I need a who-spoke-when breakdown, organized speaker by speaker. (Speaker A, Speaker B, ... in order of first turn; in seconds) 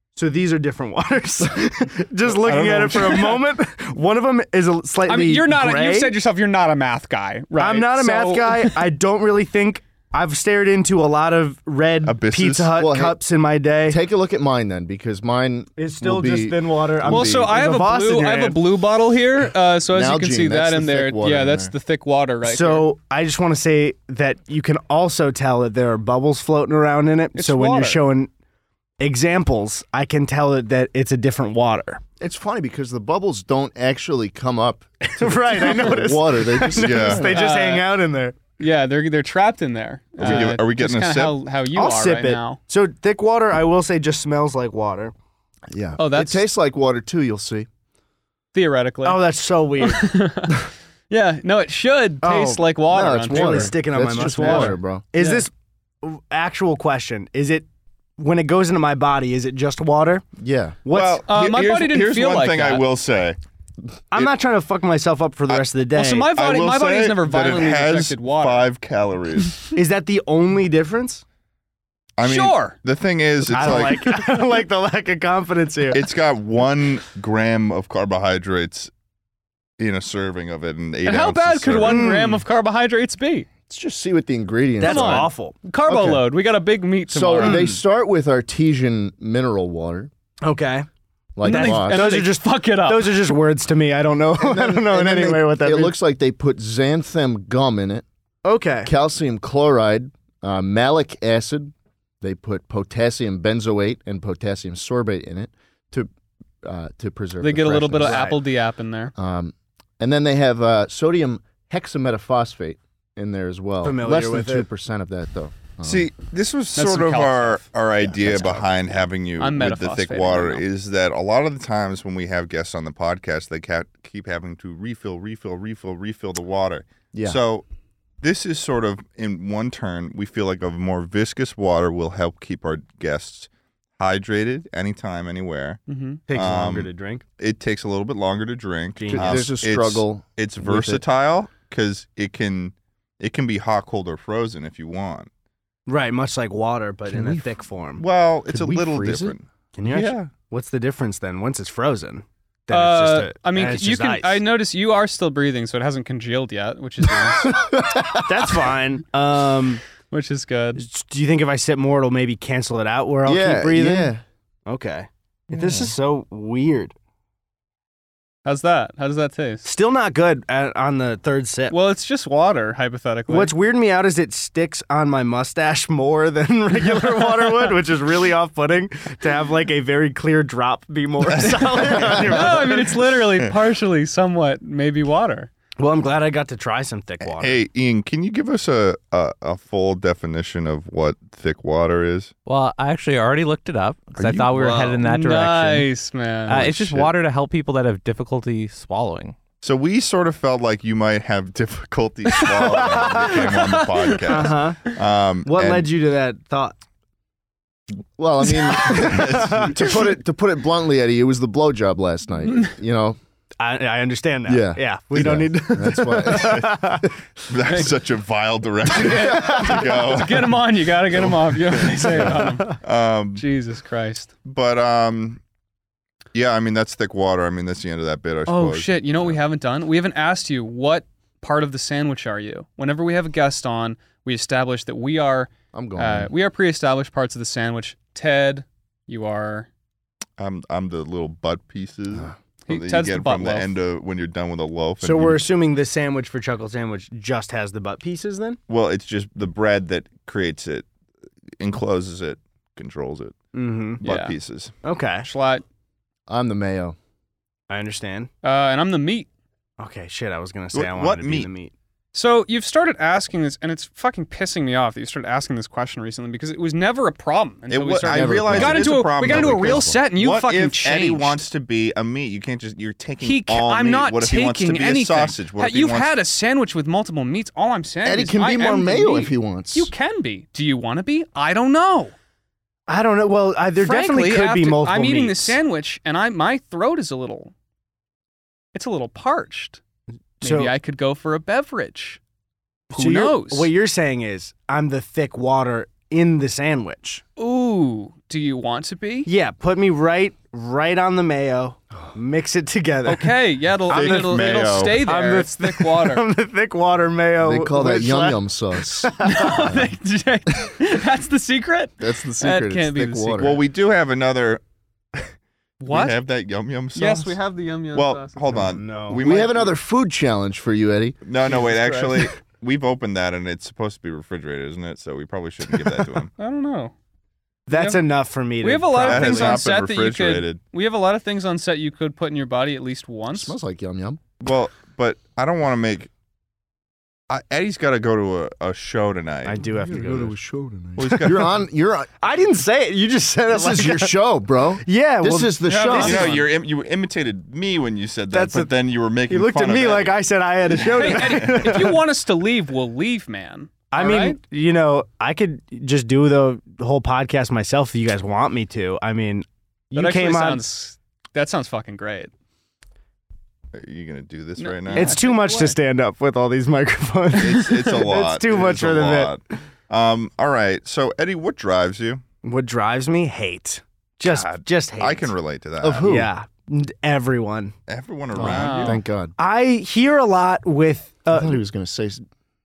Speaker A: 0.2-6.2, 7.6-14.0, 15.8-18.6, 22.4-28.3, 29.0-32.0, 35.0-38.4, 40.2-40.5, 41.7-45.1, 49.0-50.1, 52.2-52.7, 53.3-55.5, 56.0-57.7, 58.2-60.2, 60.9-61.2, 64.1-66.3, 69.7-71.2, 73.5-76.0, 81.8-82.4, 84.8-86.0, 87.4-87.8, 90.4-90.9, 91.4-96.0, 98.4-98.9, 108.0-108.4, 113.8-114.7, 136.3-137.2, 139.0-139.4, 145.9-148.0, 149.8-154.4, 158.2-159.8, 160.8-164.1, 164.7-166.9, 169.6-171.8, 173.3-183.0, 185.8-187.6, 204.3-204.8, 205.4-206.8, 213.6-217.1, 245.0-248.6, 253.5-254.0, 254.8-255.3, 257.7-258.3, 259.8-261.7, 282.9-285.6, 290.4-290.7, 292.9-297.2, 299.3-303.3, 303.9-309.7, 318.5-319.2, 327.7-329.6, 339.4-340.4, 342.2-344.2, 344.8-346.4, 348.3-348.7, 349.3-352.0, 353.9-360.6, 364.9-369.3, 372.4-375.3, 376.0-377.8, 378.4-378.8, 379.4-381.6
Speaker B: 2.4-3.4, 12.0-12.8, 36.8-37.3, 40.2-41.4, 60.9-63.4, 66.4-69.7, 72.2-74.2, 75.9-78.9, 79.8-82.1, 115.8-127.6, 128.2-135.8, 136.3-145.3, 148.0-150.3, 181.3-182.2, 187.2-192.3, 194.2-195.0, 196.6-197.1, 199.6-205.9, 208.5-210.0, 216.4-216.8, 217.5-223.4, 224.4-225.4, 226.3-229.4, 240.4-245.4, 248.7-250.9, 251.6-253.3, 254.0-254.7, 260.7-261.5, 267.7-276.1, 303.9-305.0, 313.4-314.6, 315.9-317.4, 317.9-319.8, 321.2-326.3, 329.0-330.6, 334.4-336.1, 337.3-339.6, 341.0-341.6, 346.0-350.2, 350.8-351.5, 363.8-365.2, 367.3-372.2, 374.3-376.1, 377.9-379.0
Speaker C: 2.6-3.3, 5.1-8.8, 17.1-22.9, 27.4-28.0, 37.3-37.9, 38.6-42.6, 46.0-46.5, 48.5-49.2, 49.8-55.5, 61.3-62.9, 66.0-68.7, 72.2-72.8, 81.1-83.5, 84.8-87.7, 91.4-93.3, 107.4-109.1, 116.8-117.7, 119.4-120.6, 135.9-136.2, 152.7-157.6, 160.1-160.8, 168.4-169.7, 171.7-173.5, 181.7-185.5, 195.0-196.7, 202.3-204.5, 217.7-217.9, 218.9-222.8, 223.4-224.3, 228.5-239.7, 242.7-243.7, 254.0-254.4, 255.2-255.6, 258.4-259.3, 262.1-271.4, 273.2-282.1, 283.8-287.5, 288.7-289.8, 290.4-292.2, 292.9-293.7, 297.4-299.3, 303.1-306.2, 309.2-313.6, 315.8-316.2, 316.9-318.7, 321.4-322.3, 326.4-326.9, 327.7-328.0, 328.6-333.5, 345.7-346.5, 350.9-354.4, 359.9-362.3, 364.6-365.8, 378.4-379.0
Speaker D: 12.8-13.2, 13.9-17.5, 19.9-21.7, 32.2-37.4, 45.7-47.7, 52.9-55.0, 60.4-60.8, 83.7-85.3, 85.9-86.2, 87.1-90.1, 91.4-92.1, 94.4-98.0, 98.8-106.1, 106.6-108.2, 109.2-116.1, 118.1-118.5, 139.1-141.0, 147.1-147.5, 148.5-149.3, 157.4-158.5, 163.2-164.2, 208.2-213.2, 214.5-216.8, 235.7-236.3, 256.3-257.0, 268.1-270.0, 278.1-279.9, 307.4-309.9, 312.0-313.6, 319.2-321.2, 333.3-334.2, 339.6-342.2, 343.5-346.3, 375.8-376.3, 378.4-379.3, 381.3-382.2
Speaker E: 192.5-195.9, 196.5-199.4